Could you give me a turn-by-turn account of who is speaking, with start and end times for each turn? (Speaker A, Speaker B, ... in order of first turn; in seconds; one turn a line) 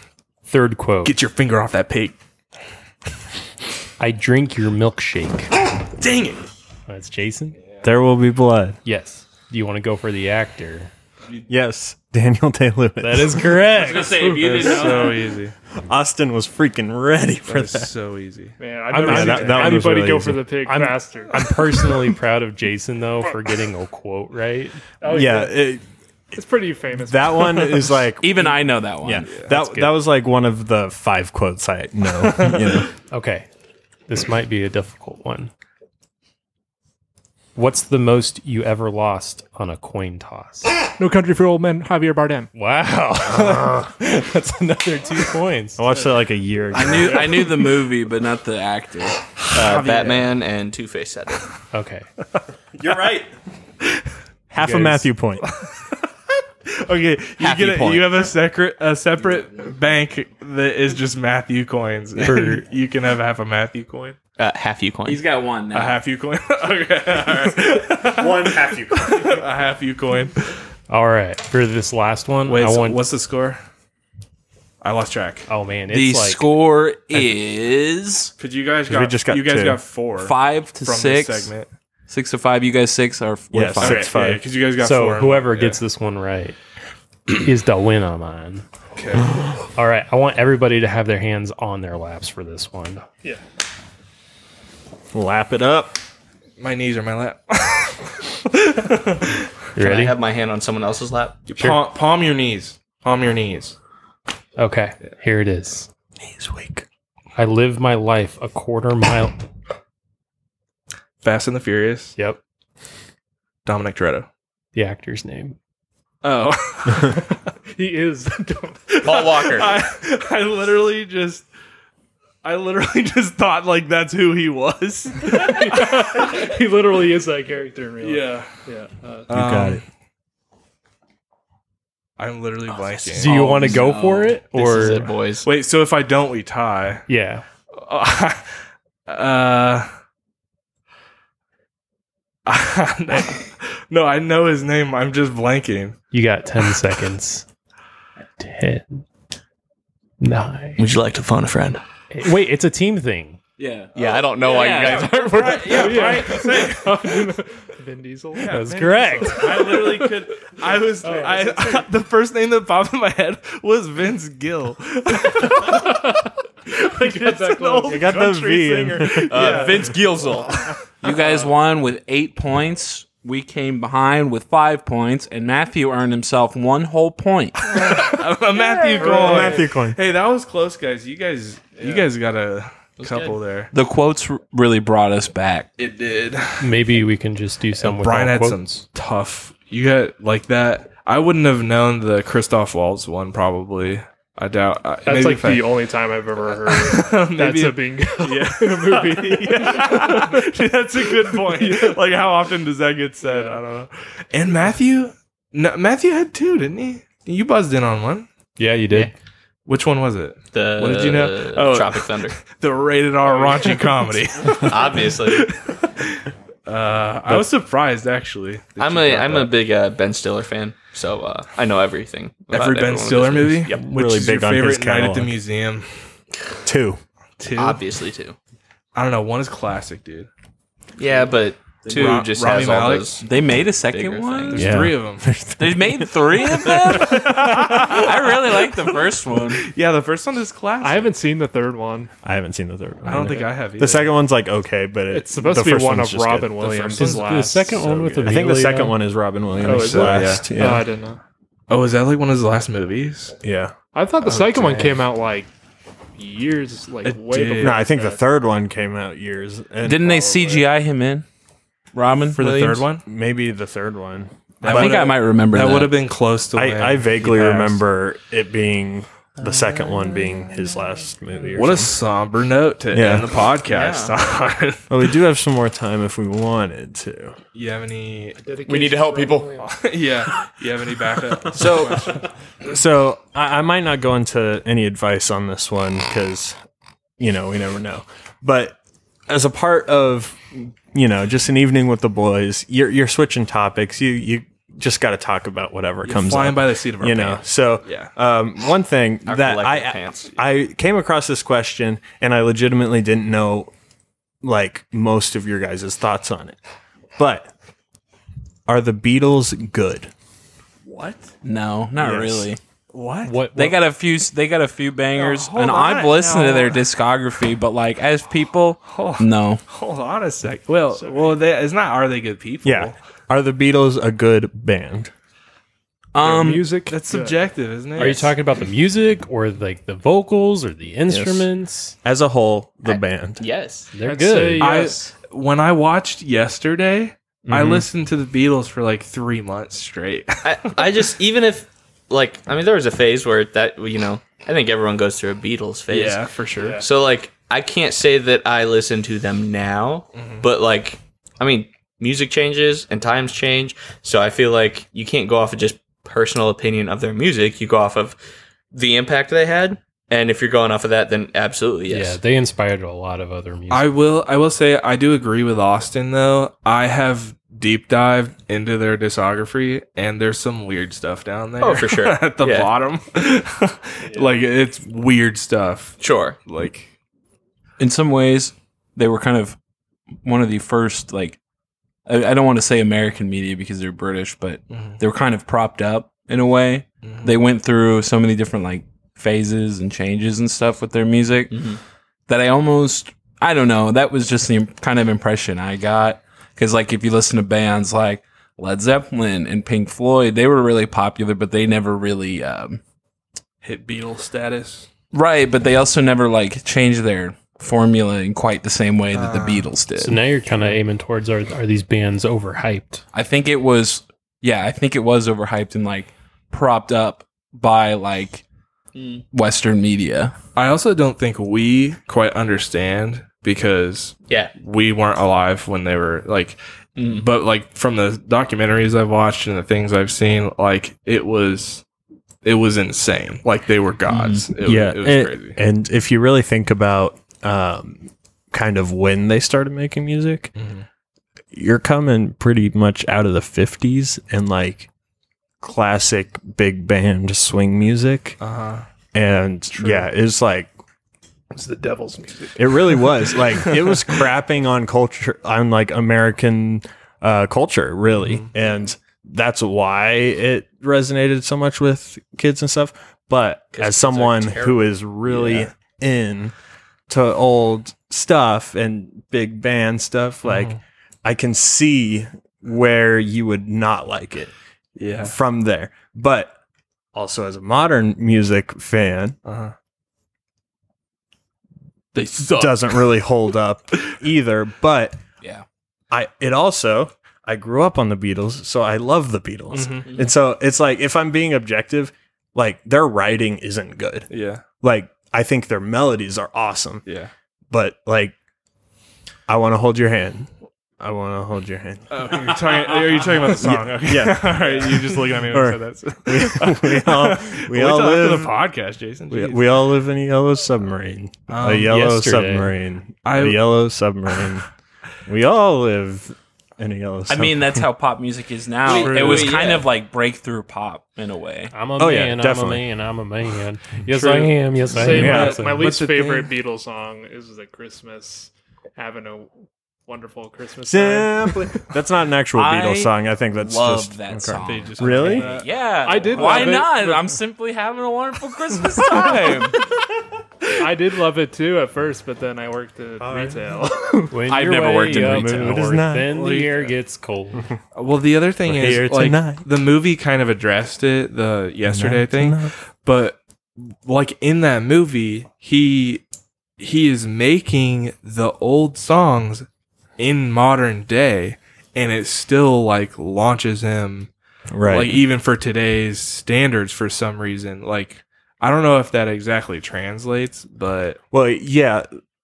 Speaker A: 0.5-1.1
Speaker B: 1.0-2.2
Speaker A: 4.0-5.5
Speaker B: 6.0-6.5
Speaker A: 6.9-7.6
Speaker C: 7.8-8.8
Speaker A: 8.8-10.9
Speaker C: 11.5-13.7
Speaker A: 13.0-14.7
Speaker D: 13.7-15.3
Speaker B: 14.3-15.5
Speaker C: 15.8-17.9
Speaker B: 17.5-18.6
Speaker E: 18.6-21.6
Speaker A: 18.9-24.8
Speaker C: 19.0-20.4
Speaker E: 25.0-25.5
Speaker C: 25.0-25.8
Speaker E: 26.3-28.0
Speaker C: 27.0-32.9
Speaker D: 28.2-29.4
Speaker A: 29.5-30.0
Speaker A: 33.1-33.5
Speaker A: 34.1-35.5
Speaker A: 37.6-40.7
Speaker E: 41.0-42.5
Speaker A: 42.5-45.8
Speaker C: 43.3-43.9
Speaker C: 45.8-47.5
Speaker D: 46.7-49.3
Speaker B: 49.5-50.4
Speaker F: 49.5-51.5
Speaker A: 51.7-52.1
Speaker C: 52.7-53.3
Speaker C: 54.5-55.5
Speaker A: 54.6-55.1
Speaker B: 55.4-56.0
Speaker B: 56.7-64.2
Speaker F: 57.4-58.3
Speaker A: 62.2-62.6
Speaker F: 64.4-65.3
Speaker D: 65.0-66.0
Speaker B: 65.7-70.5
Speaker C: 68.1-69.4
Speaker A: 70.9-73.0
Speaker B: 72.5-73.6
Speaker B: 74.8-75.5
Speaker A: 75.5-76.4
Speaker D: 75.9-78.3
Speaker B: 78.4-81.7
Speaker C: 78.9-79.8
Speaker D: 80.2-81.5
Speaker D: 82.1-84.1
Speaker C: 83.5-84.4
Speaker B: 83.8-85.8
Speaker A: 84.8-86.6
Speaker A: 87.3-88.7
Speaker B: 89.0-89.2
Speaker A: 89.7-93.0
Speaker C: 95.1-96.0
Speaker B: 96.6-99.5
Speaker A: 99.8-100.2
Speaker F: 99.8-101.4
Speaker B: 101.5-103.8
Speaker A: 101.5-101.8
Speaker A: 104.6-105.9
Speaker C: 106.2-106.9
Speaker A: 107.4-109.4
Speaker B: 111.2-112.1
Speaker B: 113.7-114.3
Speaker A: 114.7-115.6
Speaker B: 116.2-117.4
Speaker E: 117.8-119.0
Speaker B: 118.9-121.5
Speaker F: 119.0-119.7
Speaker B: 122.4-125.9
Speaker E: 125.2-129.3
Speaker B: 128.0-128.5
Speaker C: 129.3-129.8
Speaker B: 129.3-129.8
Speaker B: 132.2-133.4
Speaker F: 132.7-133.8
Speaker A: 133.1-135.1
Speaker D: 133.2-134.4
Speaker F: 134.5-135.5
Speaker B: 135.4-137.1
Speaker A: 137.1-137.4
Speaker B: 137.7-138.4
Speaker B: 139.1-139.9
Speaker B: 142.5-146.0
Speaker A: 146.1-147.5
Speaker A: 148.4-149.1
Speaker A: 150.2-150.8
Speaker F: 150.8-151.8
Speaker A: 152.1-153.4
Speaker D: 153.6-155.7
Speaker F: 154.0-156.2
Speaker B: 154.9-157.2
Speaker E: 155.7-160.2
Speaker B: 158.4-170.0
Speaker A: 158.5-159.5
Speaker E: 161.0-161.9
Speaker E: 165.3-168.3
Speaker C: 167.9-169.6
Speaker F: 169.3-170.7
Speaker D: 169.4-170.2
Speaker D: 171.0-177.8
Speaker B: 177.6-183.7
Speaker E: 179.1-179.6
Speaker C: 179.1-180.0
Speaker F: 183.0-183.4
Speaker D: 183.7-185.7
Speaker B: 185.8-186.7
Speaker A: 186.6-188.7
Speaker B: 187.8-195.8
Speaker E: 195.1-200.6
Speaker B: 196.7-208.3
Speaker E: 201.2-202.0
Speaker E: 203.2-203.6
Speaker A: 208.6-209.1
Speaker B: 209.7-219.5
Speaker F: 210.5-212.4
Speaker F: 214.5-215.5
Speaker F: 218.8-223.9
Speaker B: 222.5-225.9
Speaker C: 223.8-225.3
Speaker C: 226.7-227.0
Speaker B: 227.4-227.8
Speaker F: 227.6-228.4
Speaker B: 228.9-230.3
Speaker F: 231.0-234.6
Speaker D: 231.8-232.4
Speaker B: 231.9-233.1
Speaker D: 233.2-234.7
Speaker B: 234.5-235.3
Speaker C: 234.6-238.0
Speaker D: 235.6-239.7
Speaker B: 236.9-238.8
Speaker B: 239.5-241.1
Speaker E: 240.8-242.1
Speaker C: 242.2-247.1
Speaker B: 243.1-244.1
Speaker E: 245.1-248.3
Speaker B: 247.0-247.3
Speaker A: 247.0-249.0
Speaker C: 248.2-250.9
Speaker B: 249.6-250.5
Speaker E: 249.6-251.2
Speaker B: 251.7-253.3
Speaker C: 253.4-254.8
Speaker E: 253.9-255.5
Speaker E: 256.2-258.2
Speaker B: 257.0-257.8
Speaker C: 257.6-260.7
Speaker D: 259.8-261.3
Speaker D: 261.9-262.9
Speaker B: 262.3-263.1
Speaker C: 263.1-265.0
Speaker B: 264.6-267.8
Speaker D: 264.6-265.9
Speaker C: 266.6-272.0
Speaker B: 271.6-275.0
Speaker C: 272.9-273.3
Speaker F: 273.7-274.1
Speaker C: 274.9-277.4
Speaker B: 277.6-278.4
Speaker E: 278.4-279.8
Speaker F: 278.6-279.6
Speaker B: 279.6-282.3
Speaker C: 281.4-281.9
Speaker F: 281.5-282.1
Speaker C: 282.6-286.6
Speaker C: 287.2-303.7
Speaker B: 296.0-298.1
Speaker F: 299.3-300.4
Speaker C: 304.4-306.6
Speaker C: 307.2-307.5
Speaker C: 308.7-310.1
Speaker B: 310.9-311.3
Speaker D: 311.4-312.6
Speaker C: 312.0-312.5
Speaker B: 312.9-313.4
Speaker A: 313.2-313.8
Speaker D: 313.5-319.6
Speaker B: 315.1-316.9
Speaker B: 318.9-322.9
Speaker E: 321.0-321.4
Speaker C: 322.6-325.1
Speaker D: 326.1-326.8
Speaker E: 326.2-327.4
Speaker B: 326.9-328.3
Speaker A: 328.0-332.0
Speaker C: 331.1-331.5
Speaker C: 332.0-333.4
Speaker F: 332.9-333.9
Speaker A: 333.9-334.7
Speaker E: 334.1-335.1
Speaker B: 334.6-341.1
Speaker C: 337.5-337.8
Speaker F: 340.4-346.2
Speaker B: 345.9-346.8
Speaker E: 346.6-346.8
Speaker F: 346.8-358.2
Speaker B: 350.2-350.4
Speaker F: 358.7-362.2
Speaker A: 361.9-363.9
Speaker B: 363.7-376.9
Speaker F: 371.6-372.7
Speaker F: 376.0-376.4
Speaker D: 377.8-379.6
Speaker D: 380.2-381.4
Speaker D: 382.1-391.7
Speaker B: 384.7-385.0
Speaker B: 387.0-387.4
Speaker F: 391.5-391.8
Speaker D: 392.3-402.8
Speaker B: 403.6-404.9
Speaker D: 405.1-410.2
Speaker B: 409.1-409.7
Speaker A: 410.0-413.0
Speaker D: 413.1-418.4
Speaker F: 418.9-419.2
Speaker D: 419.3-420.4
Speaker B: 420.6-431.8
Speaker F: 427.0-427.3
Speaker B: 432.4-435.6
Speaker F: 434.1-434.5
Speaker C: 434.6-440.5
Speaker B: 440.6-440.9
Speaker C: 441.5-444.9
Speaker C: 445.6-448.4
Speaker B: 448.4-448.9
Speaker C: 449.1-450.7
Speaker E: 449.8-450.1
Speaker E: 451.5-453.1
Speaker C: 452.6-466.5
Speaker B: 458.2-458.5
Speaker F: 463.7-465.6
Speaker C: 467.1-474.5
Speaker B: 470.4-470.8
Speaker B: 475.0-475.4
Speaker C: 475.2-476.5
Speaker C: 477.1-479.4
Speaker B: 479.5-479.7
Speaker B: 482.1-483.2
Speaker C: 482.5-485.2
Speaker C: 486.1-494.3
Speaker B: 489.7-490.1
Speaker B: 494.3-494.6
Speaker C: 494.8-497.1
Speaker B: 497.1-497.3
Speaker C: 497.7-498.4
Speaker C: 499.5-500.5
Speaker C: 501.0-508.6
Speaker B: 502.1-509.8
Speaker C: 509.3-514.7
Speaker B: 511.5-512.0
Speaker A: 511.9-512.7
Speaker B: 513.2-513.8
Speaker C: 515.3-517.9
Speaker D: 517.3-521.7
Speaker F: 518.9-519.9
Speaker B: 518.9-519.6
Speaker A: 521.7-525.9
Speaker C: 522.0-522.9
Speaker E: 524.1-529.5
Speaker C: 525.0-525.6
Speaker B: 525.2-526.5
Speaker E: 530.1-531.7
Speaker C: 530.9-535.5
Speaker D: 532.5-539.8
Speaker B: 534.6-536.7
Speaker E: 536.0-537.3
Speaker E: 540.8-544.4
Speaker C: 543.2-543.7
Speaker A: 544.3-547.7
Speaker D: 544.5-545.8
Speaker C: 545.2-546.3
Speaker B: 546.3-546.9
Speaker B: 548.0-556.2
Speaker C: 548.7-549.6
Speaker C: 551.9-552.7
Speaker B: 556.8-559.7
Speaker B: 560.2-564.3
Speaker C: 564.7-565.2
Speaker B: 564.9-571.2
Speaker C: 571.3-572.1